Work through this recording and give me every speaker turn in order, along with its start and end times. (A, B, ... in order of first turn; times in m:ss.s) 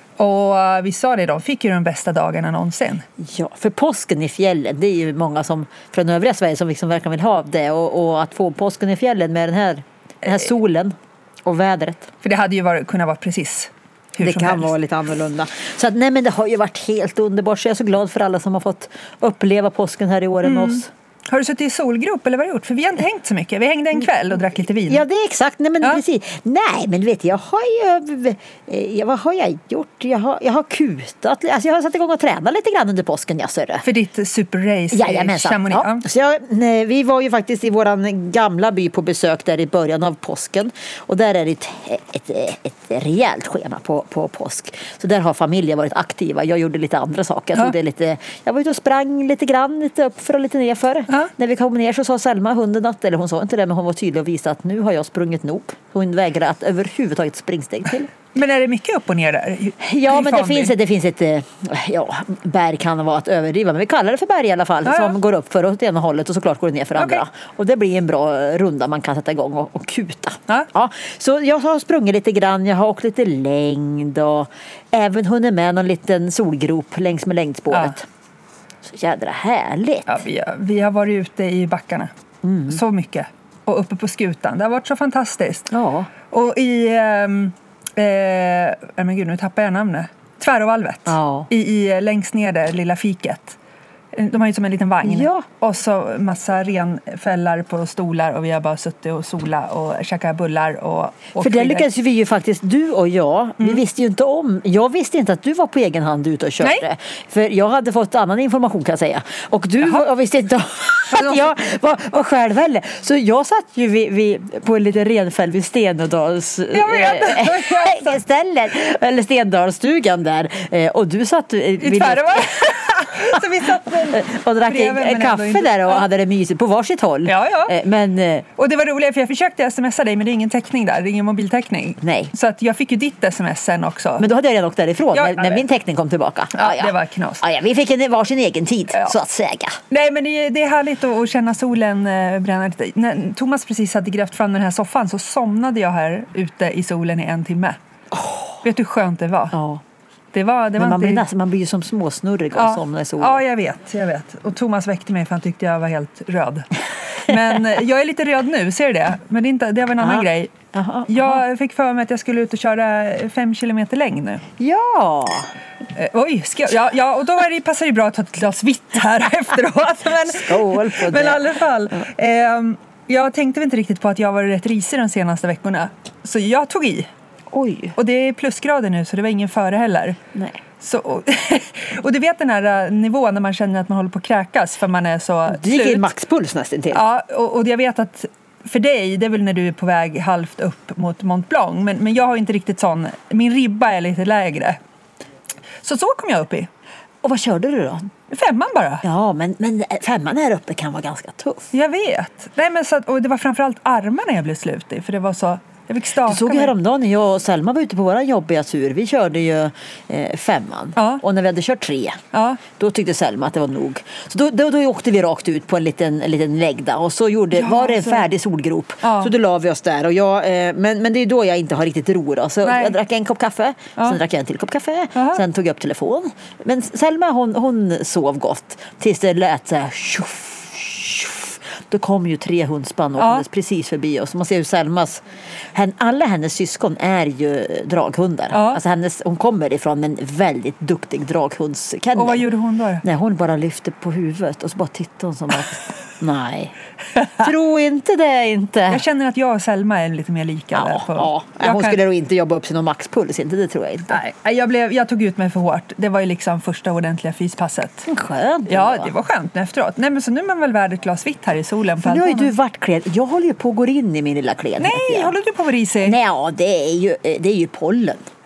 0:00.2-0:03.0 A
0:03.2-0:12.1 B
0:12.2-0:14.7 A
0:14.2-0:20.9 B
0:20.4-0:25.0 A
0:24.9-0:33.8 B
0:33.8-0:36.0 A
0:34.9-0:58.1 B
0:58.3-1:00.7 A
0:59.8-1:18.0 B
1:04.8-1:05.2 A
1:06.9-1:07.2 A
1:18.8-1:20.2 B
1:20.1-1:22.1 A
1:22.4-1:22.8 B
1:22.7-1:25.7 A
1:25.7-1:26.1 B
1:26.3-1:33.6 A
1:31.1-1:31.5 B
1:34.1-1:41.9 A
1:35.0-1:35.5 B
1:41.4-2:08.4 B
1:51.1-1:51.4 A
1:56.7-1:58.1 A
2:01.8-2:06.0 A
2:07.2-2:07.7 A
2:08.6-2:14.2 A
2:12.0-2:12.3 B
2:14.2-2:19.8 B
2:15.1-2:15.6 A
2:16.5-2:17.4 A
2:19.9-2:27.8 A
2:28.1-2:28.6 B
2:28.6-2:29.6 A
2:29.5-2:29.8 B
2:30.3-2:31.2 A
2:30.8-2:33.4 B
2:32.5-2:36.7 A
2:37.2-2:40.5 A
2:40.0-2:41.4 B
2:41.1-2:44.4 A
2:44.6-2:45.5 B
2:45.9-2:57.1 A
2:50.2-2:51.6 B
2:57.5-2:58.0 B
2:58.0-3:00.2 A
3:00.3-3:00.6 B
3:00.8-3:06.1 A
3:05.5-3:07.0 B
3:06.9-3:14.8 A
3:15.8-3:16.7 A
3:17.2-3:18.1 B
3:18.3-3:19.0 A
3:19.0-3:21.7 B
3:21.7-3:26.7 A
3:26.2-3:32.2 B
3:31.0-3:31.2 A
3:32.3-3:32.6 A
3:32.7-4:02.5 B
3:37.5-3:38.2 A
3:39.0-3:39.3 A
3:42.6-3:43.0 A
3:45.1-3:45.4 A
3:53.2-3:53.4 A
3:58.5-3:58.8 A
4:02.1-4:03.0 A
4:03.0-4:09.0 B
4:08.9-4:12.0 A
4:10.7-4:14.2 B
4:14.1-4:18.1 A
4:18.0-4:19.1 B
4:18.7-4:22.5 A
4:22.0-4:25.4 B
4:24.8-4:26.2 A
4:26.0-4:28.2 B